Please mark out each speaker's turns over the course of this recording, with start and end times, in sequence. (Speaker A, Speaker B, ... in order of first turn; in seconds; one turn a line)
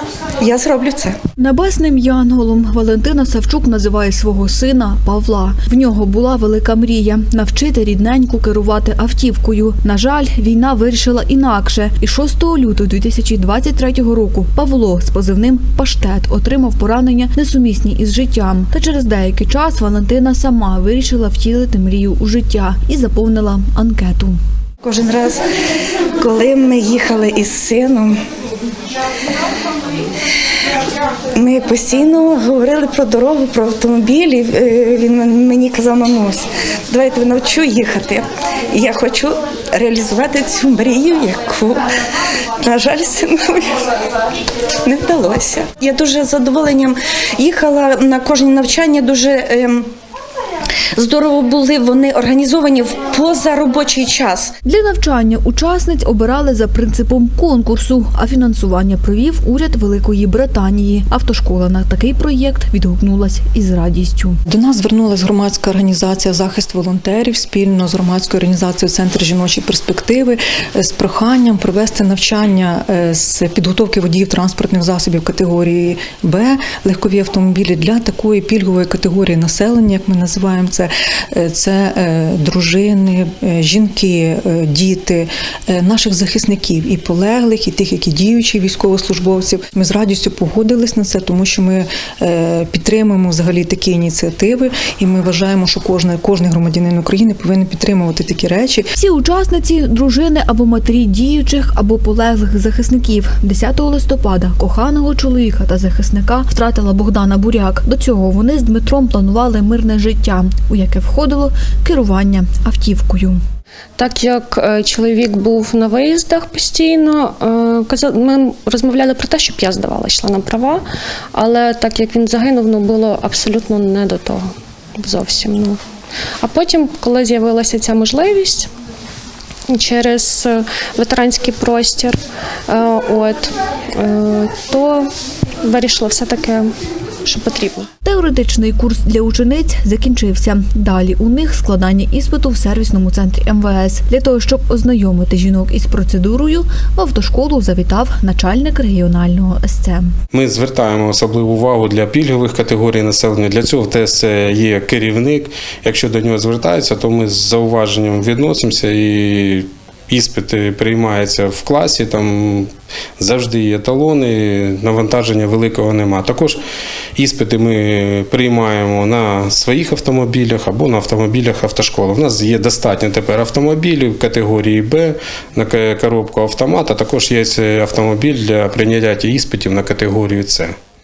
Speaker A: 0.4-1.1
Speaker B: 1.4-24.4
Speaker A: 24.8-25.4
Speaker A: 26.2-28.2
Speaker A: 31.3-41.9
Speaker A: 42.6-43.7
Speaker A: 44.8-49.9
Speaker A: 51.0-54.5
Speaker B: 54.6-64.4
Speaker C: 64.5-98.9
Speaker B: 99.0-113.4
Speaker D: 114.0-125.8
Speaker D: 126.4-128.7
Speaker D: 129.7-132.2
Speaker D: 132.7-135.1
Speaker D: 135.6-136.7
Speaker D: 137.2-137.9
Speaker B: 138.0-150.1
Speaker E: 150.3-166.6
Speaker E: 167.2-180.7